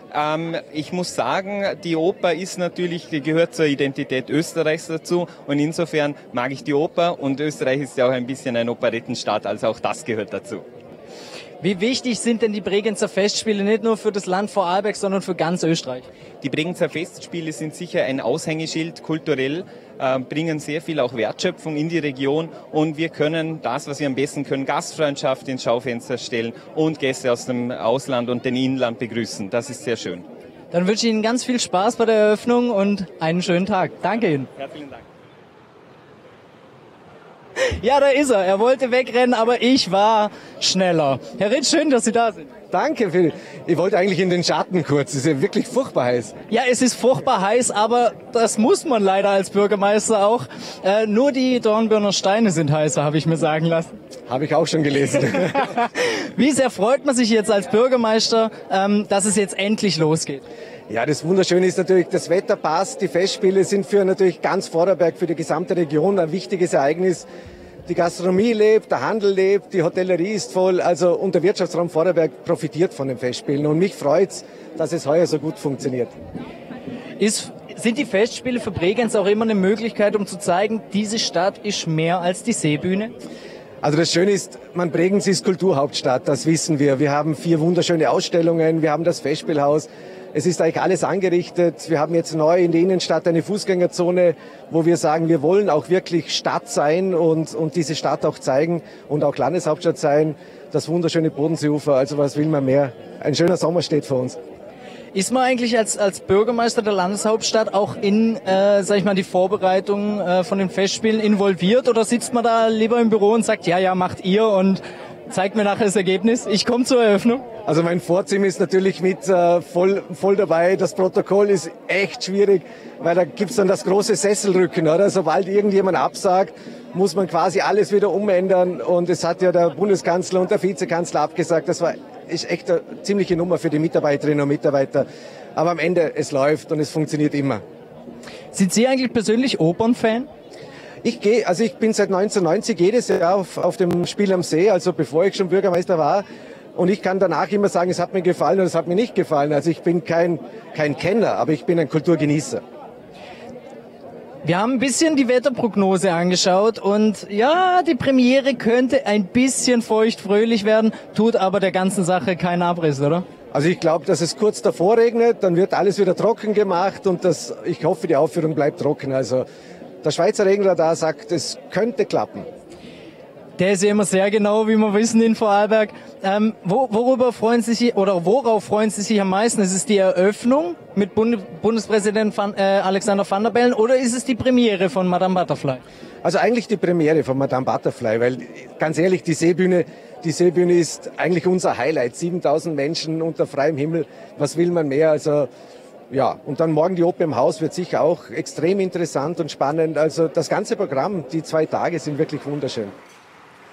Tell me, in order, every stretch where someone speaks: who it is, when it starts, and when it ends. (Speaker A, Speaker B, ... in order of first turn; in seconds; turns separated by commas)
Speaker A: 0.1-10.7, Speaker B: 11.6-16.1, Speaker A: 16.4-30.3, Speaker B: 30.7-34.5, Speaker A: 34.6-35.0, Speaker B: 37.6-42.5, Speaker C: 42.7-46.4, Speaker B: 46.5-54.0, Speaker C: 54.3-55.7, Speaker B: 55.8-60.4, Speaker C: 60.9-67.3, Speaker C: 67.9-76.1, Speaker B: 77.2-83.2, Speaker C: 83.8-104.4, Speaker B: 105.1-117.5, Speaker C: 117.7-137.6, Speaker B: 138.5-140.3, Speaker C: 141.0-152.6, Speaker B: 154.4-163.3, Speaker C: 163.5-169.4, Speaker C: 170.0-172.5, Speaker B: 173.6-185.8, Speaker C: 186.2-195.5, Speaker C: 196.1-202.9